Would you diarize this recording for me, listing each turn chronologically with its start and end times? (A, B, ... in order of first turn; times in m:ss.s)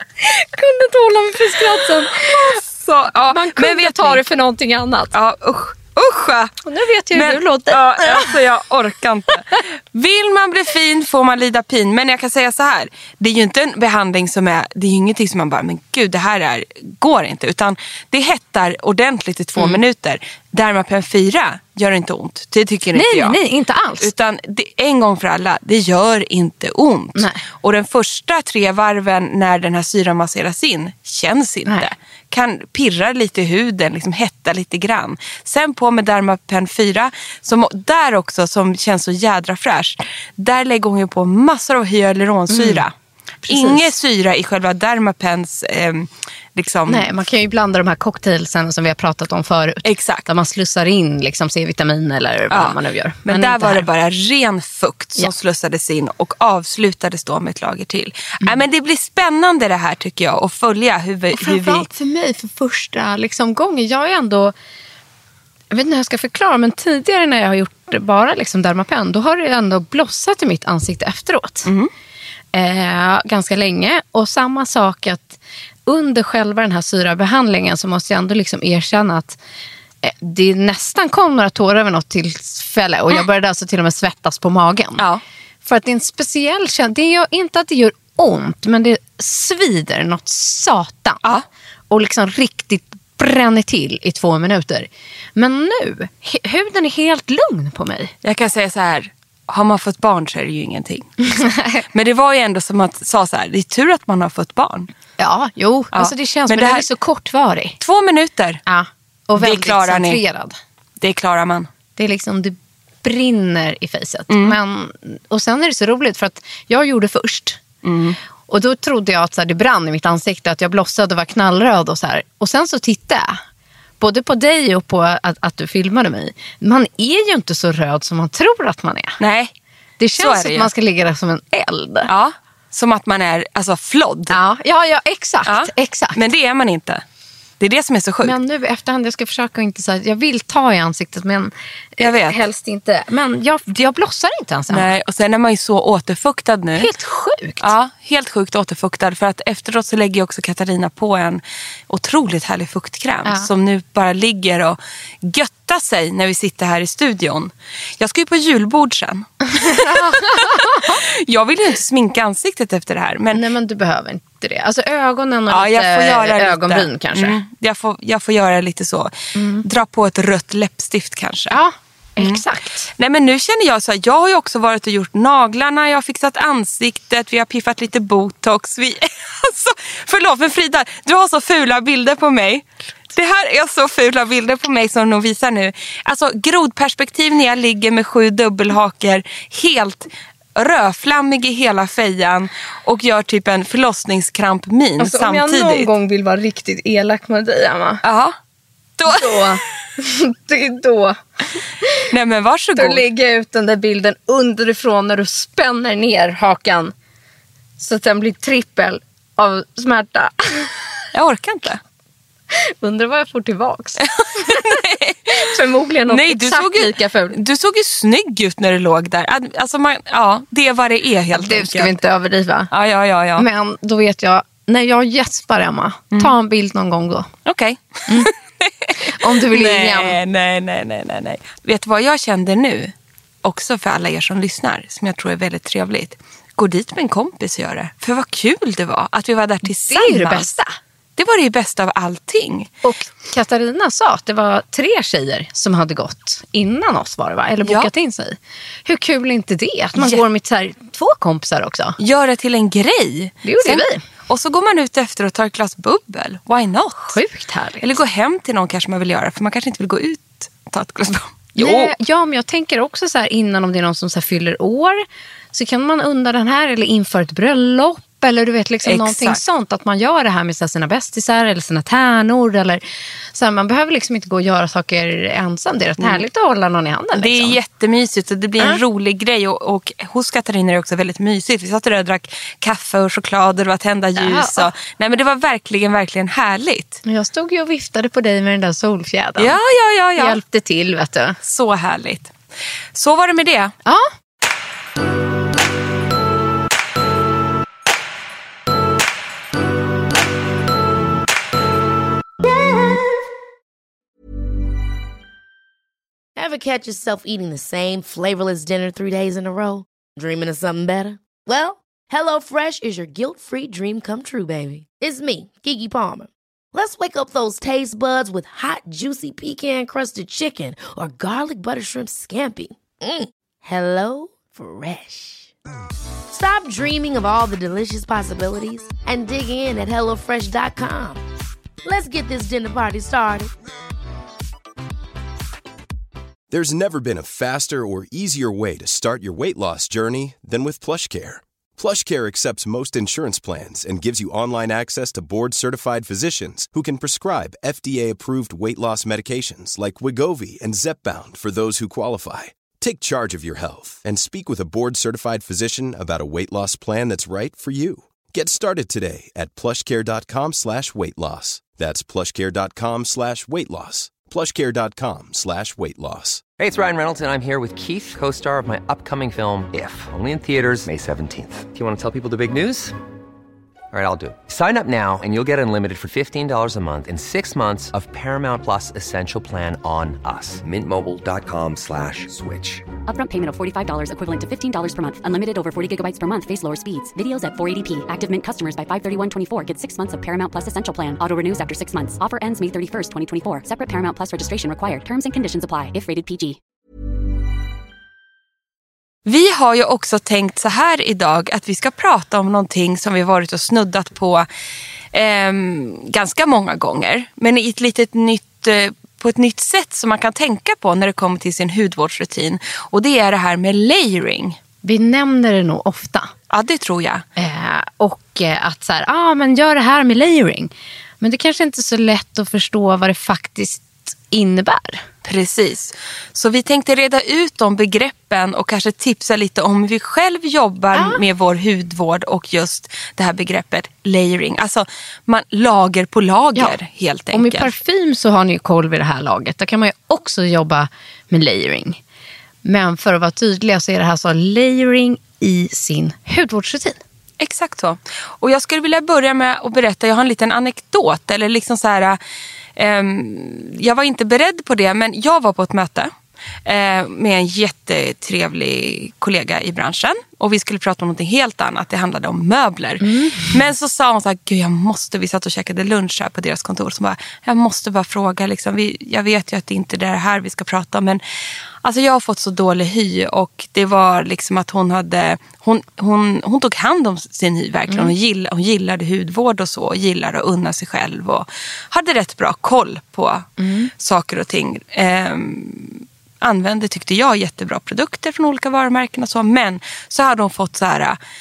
0:00.2-0:02.6 A
0:02.4-0:04.2 B
0:03.3-0:05.1 A
0:05.1-0:06.6 B
0:06.6-0:08.3 A
0:07.1-0:23.4 B
0:22.9-0:24.1 A
0:24.0-0:42.9 B
0:27.2-0:27.4 A
0:42.5-0:42.8 A
0:43.4-0:43.9 A
0:43.5-0:47.1 B
0:46.9-0:53.8 A
0:49.8-0:50.3 B
0:52.5-1:01.9 B
1:01.3-1:04.5 A
1:05.7-1:11.7 A
1:12.5-1:19.4 A
1:20.0-1:25.0 A
1:25.6-1:31.2 A
1:31.9-1:38.1 A
1:38.2-1:41.2 B
1:41.2-1:41.8 A
1:41.9-1:44.9 B
1:45.2-1:47.8 A
1:45.9-1:46.9 B
1:47.8-1:48.6 B
1:48.7-1:50.6 A
1:49.4-1:50.2 B
1:51.0-1:51.7 B
1:52.0-1:57.6 A
1:54.3-1:54.6 B
1:57.8-1:58.2 B
1:58.5-2:03.4 A
2:04.0-2:09.2 A
2:09.2-2:09.5 B
2:10.0-2:12.1 A
2:10.2-2:10.7 B
2:12.1-2:14.4 B
2:14.3-2:16.2 A
2:15.4-2:17.0 B
2:17.6-2:18.3 B
2:18.2-2:24.9 A
2:22.0-2:22.4 B
2:24.7-2:26.9 B
2:26.8-2:27.7 A
2:27.6-2:43.4 B
2:39.5-2:41.0 A
2:43.3-2:47.4 A
2:45.5-2:49.1 B
2:49.4-2:49.6 A
2:49.6-2:51.6 B
2:51.5-2:52.9 A
2:52.2-2:52.4 B
2:53.0-3:15.9 B
3:15.0-3:18.0 A
3:18.0-3:18.3 B
3:19.0-3:19.6 B
3:19.0-3:22.0 A
3:22.1-3:23.0 B
3:22.8-3:26.9 A
3:27.8-3:30.8 A
3:31.1-3:31.8 B
3:32.5-3:37.4 A
3:34.0-3:35.4 B
3:36.1-3:42.0 B
3:41.3-3:42.7 A
3:42.7-3:43.4 B
3:43.4-3:47.3 A
3:47.4-3:52.9 B
3:49.0-3:50.2 A
3:53.4-4:00.5 B
3:59.7-4:00.8 A
4:01.2-4:02.7 B
4:02.8-4:12.0 A
4:07.6-4:07.9 B
4:10.0-4:10.2 B
4:12.0-4:17.2 B
4:13.4-4:14.0 A
4:17.1-4:17.9 A
4:17.8-4:21.9 B
4:21.6-4:32.8 A
4:28.8-4:29.4 B
4:33.3-4:37.6 A
4:36.0-4:36.2 B
4:37.2-4:47.0 B
4:44.2-4:44.7 A
4:47.0-4:49.6 A
4:49.4-4:50.4 B
4:50.2-4:51.4 A
4:51.4-4:52.3 B
4:52.9-4:53.7 B
5:06.4-5:25.5 C
5:26.3-5:31.2 C
5:31.8-5:33.5 C
5:36.5-6:06.4 D
6:06.6-6:13.0 E
6:13.9-6:22.9 E
6:23.1-6:36.6 F
6:39.2-6:44.4 B
6:45.1-6:54.6 B
6:54.8-6:56.3 A
6:56.5-6:57.2 B
6:57.4-7:05.0 A
7:05.2-7:17.7 B
7:10.9-7:11.2 A
7:17.3-7:22.0 A
7:22.6-7:27.0 A
7:27.4-7:32.2 B
7:32.8-7:36.1 B
7:36.6-7:51.2 B
7:43.0-7:43.6 A
7:51.8-8:03.5 B
8:03.6-8:03.9 A
8:04.0-8:11.2 B